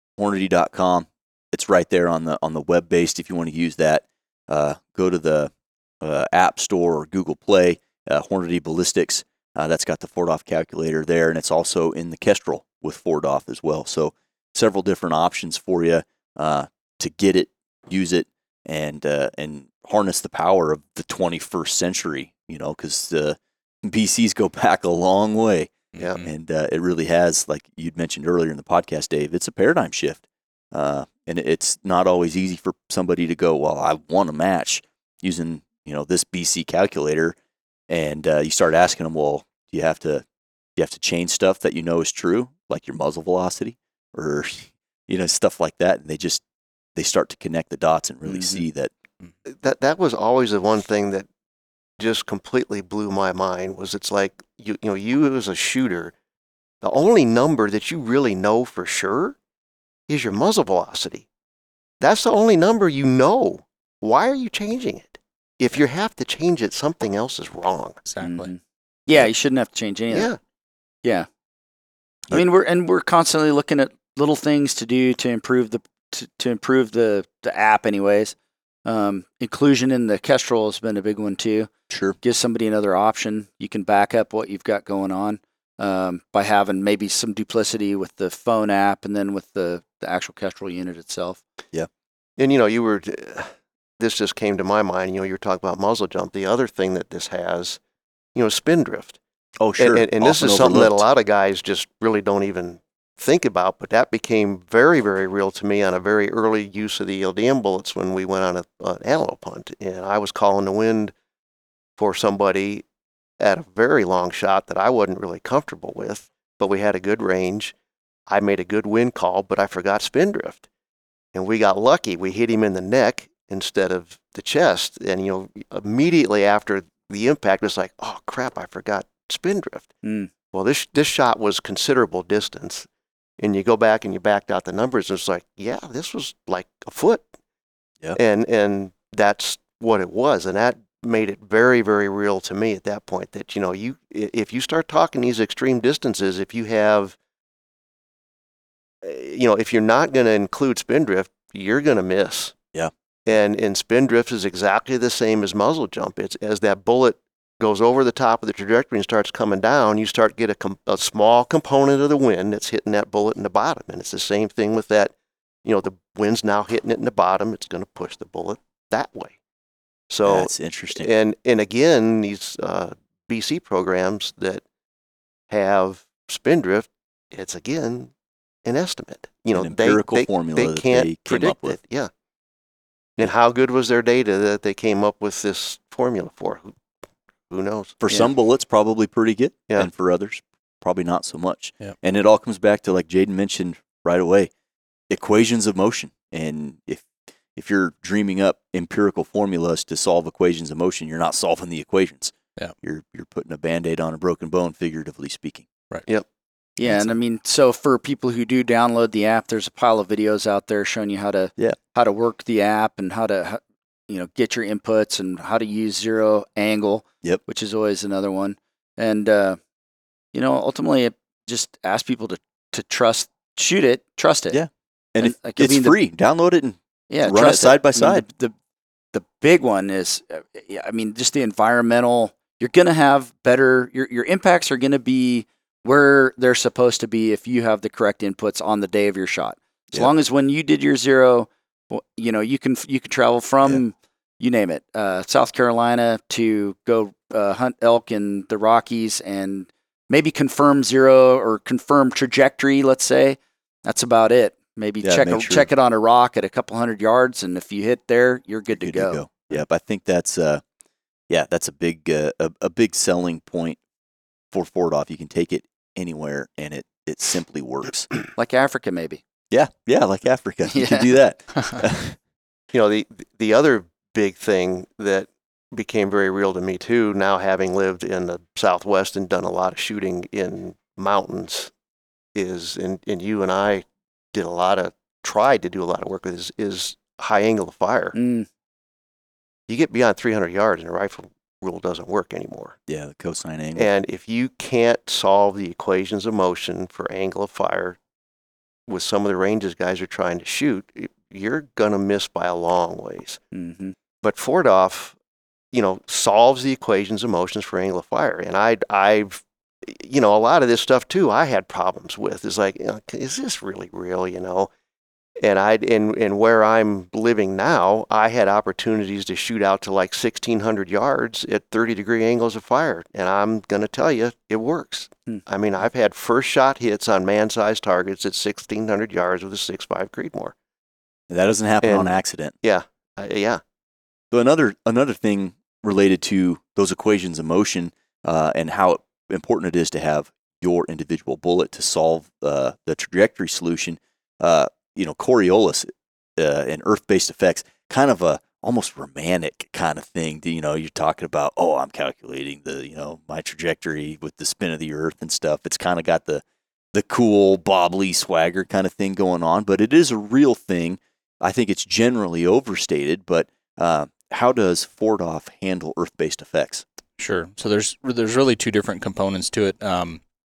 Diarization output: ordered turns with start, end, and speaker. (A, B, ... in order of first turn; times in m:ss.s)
0:00.2-0:37.4 A
0:25.9-0:26.3 B
0:37.9-0:40.2 A
0:40.8-0:46.4 A
0:47.0-0:48.9 A
0:48.3-0:48.6 C
0:49.5-0:51.3 D
0:52.0-0:56.1 D
0:56.8-0:59.4 D
1:00.1-1:01.2 D
1:02.0-1:08.0 D
1:08.0-1:08.5 B
1:08.2-1:10.3 C
1:10.1-1:10.4 D
1:12.3-1:18.3 C
1:18.8-1:21.7 C
1:21.9-1:22.2 A
1:22.2-1:31.4 C
1:32.4-1:37.8 D
1:38.3-1:39.2 D
1:39.6-1:41.0 A
1:39.8-1:51.1 D
1:52.0-1:52.8 D
1:53.4-1:57.7 D
1:58.3-2:00.6 D
2:01.3-2:09.9 D
2:10.0-2:10.3 C
2:10.5-2:12.9 D
2:13.4-2:17.3 D
2:18.1-2:27.2 D
2:29.0-2:32.5 D
2:33.2-2:45.1 D
2:45.6-2:49.4 D
2:50.1-2:54.6 D
2:50.2-2:51.1 A
2:55.5-2:58.1 D
2:58.6-3:02.1 D
2:59.5-3:01.8 A
3:03.2-3:06.8 D
3:07.5-3:08.0 D
3:08.0-3:14.5 A
3:15.1-3:25.7 A
3:26.8-3:39.6 C
3:26.8-3:27.1 A
3:40.3-3:44.6 C
3:44.5-3:48.2 A
3:45.2-3:46.0 C
3:47.1-3:48.5 C
3:49.1-4:19.6 C
4:15.0-4:15.7 A
4:18.7-4:20.6 A
4:21.3-4:23.8 A
4:24.5-4:28.1 A
4:28.4-4:29.2 C
4:29.5-4:32.2 A
4:30.7-4:31.1 C
4:32.7-4:41.7 D
4:42.3-4:48.1 D
4:48.1-4:48.5 C
4:49.7-4:52.8 D
4:52.9-4:53.9 A
4:53.7-4:58.0 D
4:58.9-5:03.4 D
5:03.5-5:03.9 C
5:04.2-5:05.2 D
5:05.7-5:14.7 D
5:15.4-5:30.5 D
5:31.3-5:32.5 A
5:31.8-5:33.6 D
5:34.3-6:06.8 A
6:07.2-6:10.2 B